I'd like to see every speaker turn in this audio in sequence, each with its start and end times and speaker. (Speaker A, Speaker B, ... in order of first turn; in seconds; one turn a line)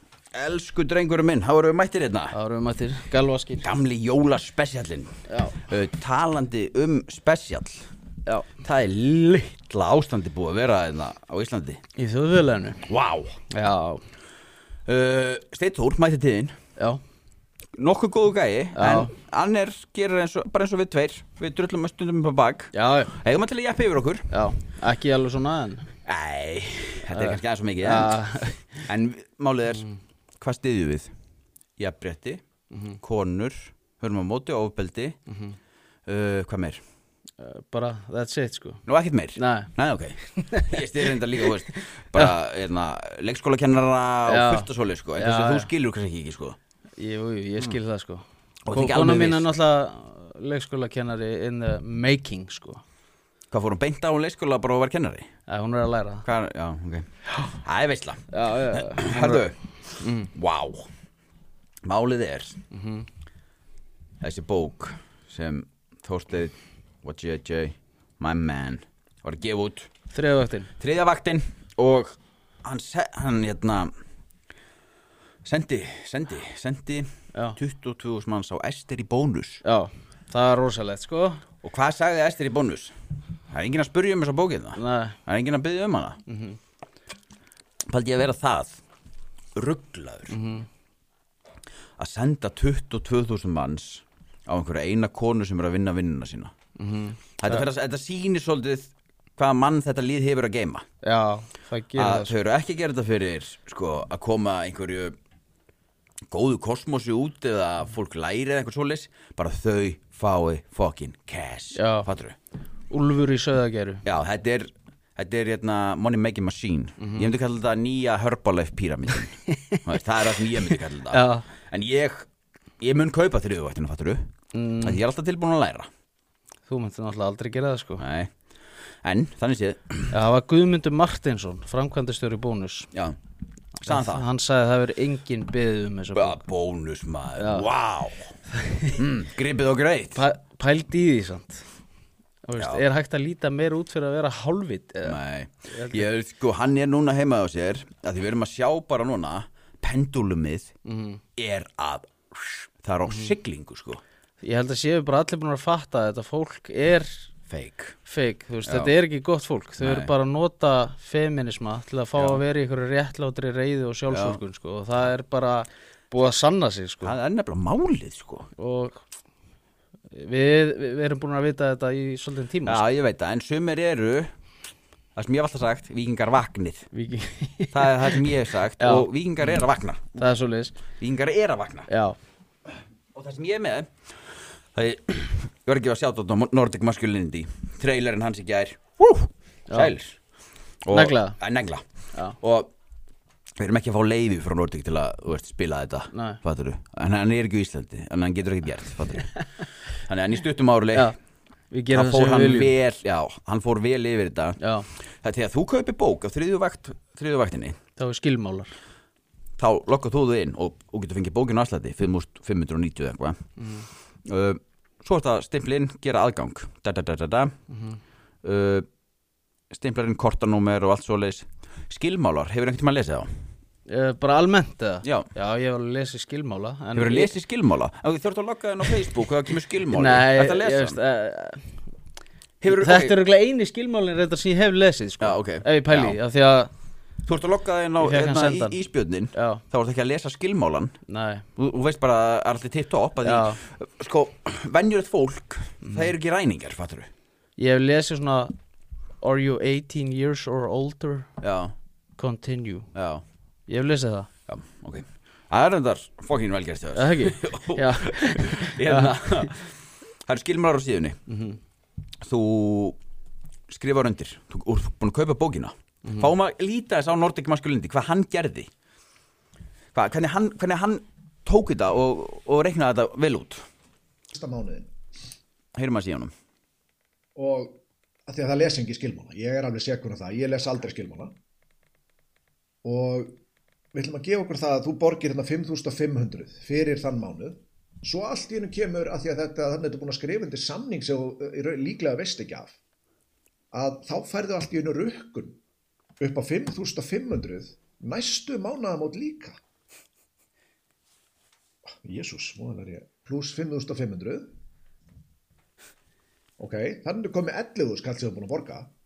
Speaker A: 0.3-2.4
Speaker B: 2.3-3.8
Speaker A: 3.6-7.9
Speaker B: 5.3-5.6
Speaker A: 8.6-11.8
Speaker B: 12.0-12.8
Speaker A: 12.9-13.4
Speaker B: 13.5-14.0
Speaker A: 14.9-16.6
Speaker A: 17.8-24.3
Speaker B: 18.8-19.1
Speaker B: 22.7-23.1
Speaker B: 24.3-25.9
Speaker A: 26.1-28.2
Speaker B: 27.1-28.9
Speaker A: 28.9-29.9
Speaker A: 30.4-31.1
Speaker A: 31.8-32.4
Speaker A: 33.0-35.2
Speaker A: 36.1-36.8
Speaker B: 37.4-38.8
Speaker A: 38.9-46.6
Speaker B: 39.4-39.7
Speaker B: 40.3-42.4
Speaker B: 44.3-45.7
Speaker B: 47.0-52.8
Speaker A: 48.7-49.5
Speaker A: 53.5-55.3
Speaker B: 55.5-56.3
Speaker A: 56.2-60.9
Speaker B: 58.3-60.3
Speaker A: 61.8-62.6
Speaker B: 62.7-63.1
Speaker A: 64.2-69.9
Speaker B: 70.1-70.7
Speaker A: 70.8-73.9
Speaker A: 75.5-79.6
Speaker B: 79.6-81.4
Speaker A: 81.6-82.9
Speaker A: 83.5-86.2
Speaker B: 84.8-85.2
Speaker B: 86.3-86.6
Speaker A: 87.9-88.8
Speaker A: 89.5-90.3
Speaker B: 90.3-90.7
Speaker A: 92.0-96.5
Speaker B: 96.8-97.7
Speaker A: 97.4-100.8
Speaker B: 101.0-102.3
Speaker A: 102.0-105.2
Speaker A: 106.3-112.4
Speaker B: 111.8-112.1
Speaker B: 112.9-114.0
Speaker A: 114.0-122.3
Speaker B: 117.0-117.3
Speaker B: 120.6-121.5
Speaker A: 122.8-124.2
Speaker B: 124.5-125.0
Speaker A: 124.8-125.9
Speaker B: 126.7-128.0
Speaker A: 128.0-128.3
Speaker A: 129.0-130.1
Speaker B: 130.1-132.9
Speaker A: 133.8-134.3
Speaker B: 133.9-136.4
Speaker A: 136.1-138.3
Speaker B: 137.4-137.7
Speaker A: 138.9-140.2
Speaker B: 140.2-141.7
Speaker B: 142.5-146.1
Speaker A: 142.6-142.8
Speaker A: 145.0-150.7
Speaker B: 150.9-151.2
Speaker A: 151.4-154.0
Speaker B: 154.4-157.3
Speaker A: 157.5-158.0
Speaker B: 158.1-167.1
Speaker A: 158.7-158.9
Speaker A: 159.8-160.1
Speaker A: 162.2-162.4
Speaker A: 164.1-164.4
Speaker A: 167.0-168.5
Speaker B: 168.6-169.0
Speaker B: 170.1-172.8
Speaker A: 172.7-174.3
Speaker A: 175.2-176.9
Speaker B: 176.9-179.1
Speaker A: 177.7-180.3
Speaker B: 180.2-180.8
Speaker A: 181.0-181.9
Speaker B: 181.9-182.2
Speaker A: 183.1-183.9
Speaker A: 184.8-190.2
Speaker B: 189.7-189.9
Speaker A: 190.9-191.8
Speaker B: 190.9-191.4
Speaker A: 192.4-192.7
Speaker A: 193.6-199.4
Speaker B: 196.1-196.4
Speaker A: 200.0-201.1
Speaker B: 201.7-202.8
Speaker A: 201.9-204.6
Speaker B: 204.6-204.9
Speaker A: 205.2-207.8
Speaker B: 208.0-208.7
Speaker A: 209.6-213.4
Speaker A: 214.2-217.6
Speaker A: 218.4-218.9
Speaker A: 219.7-223.3
Speaker B: 223.9-227.3
Speaker A: 225.0-225.3
Speaker A: 226.9-231.0
Speaker B: 229.9-231.8
Speaker A: 232.6-233.1
Speaker B: 232.7-236.7
Speaker A: 235.2-236.2
Speaker A: 237.3-240.9
Speaker B: 238.0-238.8
Speaker B: 239.3-239.6
Speaker B: 241.1-241.5
Speaker A: 241.6-247.1
Speaker B: 243.2-243.6
Speaker B: 247.6-248.5
Speaker B: 249.2-251.3
Speaker A: 251.4-251.7
Speaker B: 252.2-252.9
Speaker A: 252.9-253.2
Speaker B: 253.7-254.3
Speaker A: 254.5-261.2
Speaker B: 256.9-259.4
Speaker B: 261.3-261.6
Speaker A: 262.2-263.0
Speaker A: 263.7-268.7
Speaker A: 269.9-273.6
Speaker C: 274.4-274.9
Speaker A: 275.8-276.3
Speaker C: 277.4-281.3
Speaker C: 282.8-283.4
Speaker C: 283.9-292.8
Speaker C: 293.7-295.6
Speaker C: 296.2-299.6
Speaker C: 302.0-304.5
Speaker C: 306.6-308.9